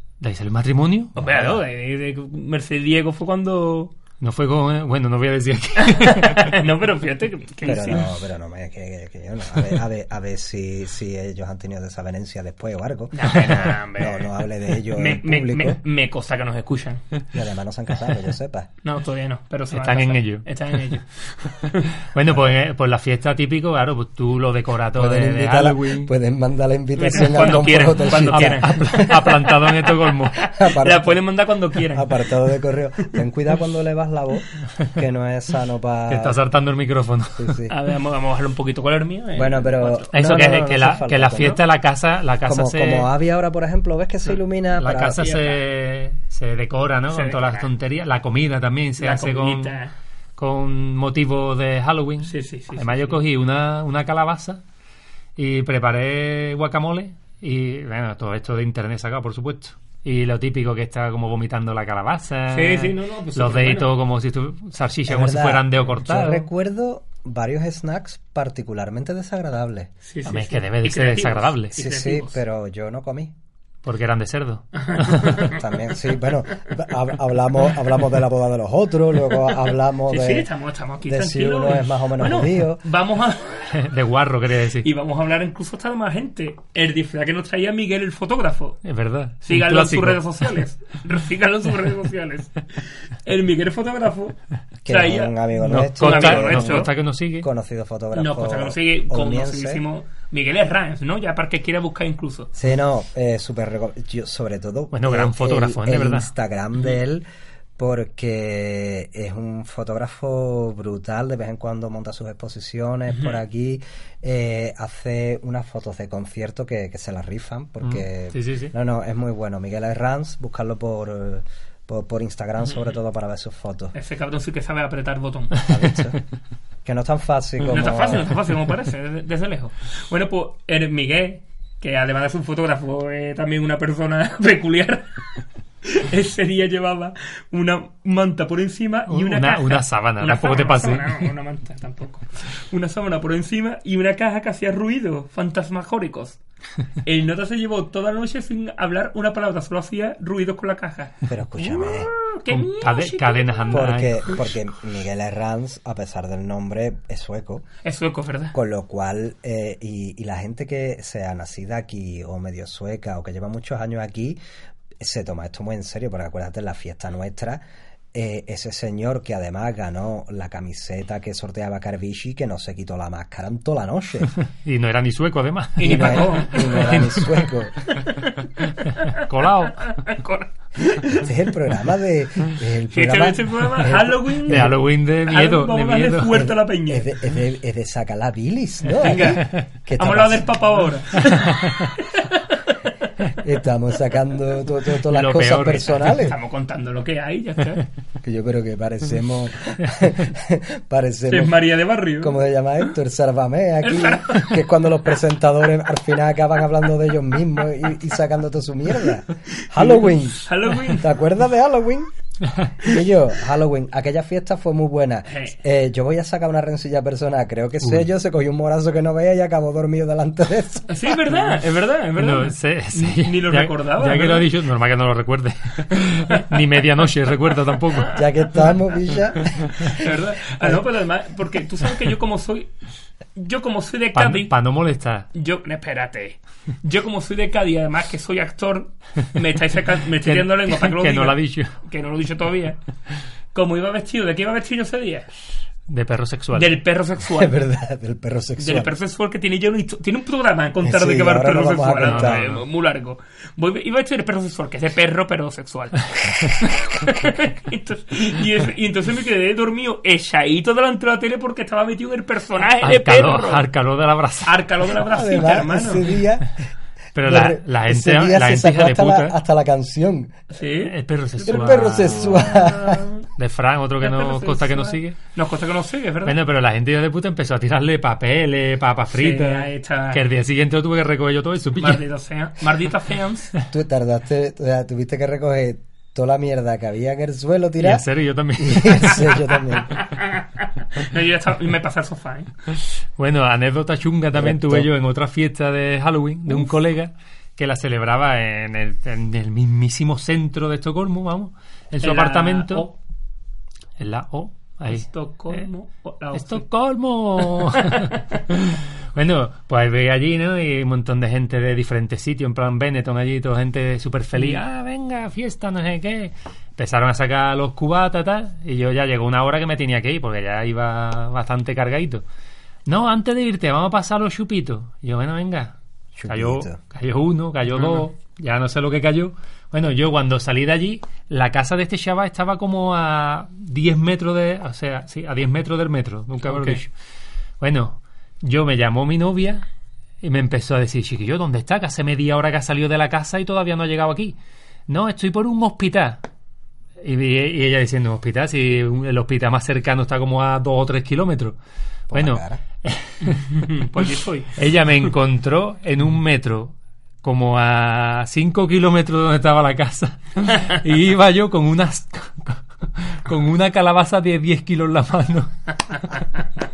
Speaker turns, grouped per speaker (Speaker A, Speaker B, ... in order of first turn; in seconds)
Speaker A: 0.2-1.1, 4.2-6.6, 19.7-20.5, 22.1-26.1, 27.9-30.4, 36.1-37.6, 40.1-43.1, 44.8-49.8, 50.4-54.6, 55.4-66.5, 70.3-71.7, 73.8-75.5, 83.7-84.9, 88.8-90.3, 95.6-97.5, 104.9-106.3, 117.8-118.7, 139.1-141.3, 152.5-154.5, 174.5-177.4, 179.1-179.9, 184.5-186.5, 191.6-191.9, 195.1-196.1, 222.2-228.2, 234.2-235.3, 240.2-241.7, 245.9-246.8, 252.0-252.6, 262.8-264.6, 267.1-269.4, 270.9-272.5, 273.4-275.2, 276.2-282.0, 287.8-289.3, 293.2-302.9, 304.0-305.6, 306.4-322.2, 322.9-325.8, 326.3-336.9, 337.6-339.6, 340.2-344.4, 344.9-346.2, 347.0-351.6, 352.1-353.5, 354.6-366.2
Speaker B: 1.2-1.6, 7.6-15.8, 17.3-18.7, 24.9-29.4, 30.4-31.3, 31.9-36.4, 37.4-37.7, 39.4-41.6, 42.5-45.3, 65.1-69.9, 71.8-73.3, 75.4-80.5, 81.0-82.8, 94.8-99.8, 102.5-107.2, 107.8-123.9, 125.7-126.2, 126.8-128.3, 151.3-152.1, 153.7-157.7, 158.5-164.4, 165.0-167.6, 168.1-174.3, 175.8-177.9, 181.1-184.7, 186.3-190.6, 193.4-196.4, 198.2-201.6, 202.2-212.1, 212.8-221.2, 228.1-230.1, 247.3-248.9, 250.8-252.5, 265.1-266.5, 267.2-270.4, 271.5-273.1, 283.7-288.1, 288.6-290.0, 294.4-294.9, 326.2-326.8, 352.1-352.6
Speaker C: 1.2-3.9, 5.8-8.0, 13.1-14.3, 14.9-17.0, 18.8-21.9, 27.0-32.2, 37.7-40.6, 45.2-45.6, 47.1-47.7, 49.0-49.9, 52.2-53.2, 62.5-63.9, 70.0-72.4, 74.8-75.6, 80.1-83.7, 84.8-88.8, 89.4-92.6, 93.2-94.4, 94.9-96.9, 98.1-102.5, 123.9-125.6, 127.6-135.2, 135.8-146.4, 147.0-153.8, 157.8-158.6, 175.8-177.1, 177.9-181.3, 182.9-187.1, 188.9-192.8, 196.1-197.9, 201.3-202.4, 203.8-204.6, 209.6-211.1, 215.3-215.6, 220.9-224.5, 229.8-232.7, 233.4-234.5, 235.3-242.8, 243.5-245.3, 246.5-247.6, 248.6-263.7, 264.4-266.1, 270.5-270.9, 272.3-273.2, 274.0-276.4, 279.1-280.2, 281.8-283.5, 289.8-292.5, 302.0-302.9, 304.9-306.6, 307.6-308.2, 314.4-314.6, 327.8-328.1, 336.5-336.8, 353.2-354.6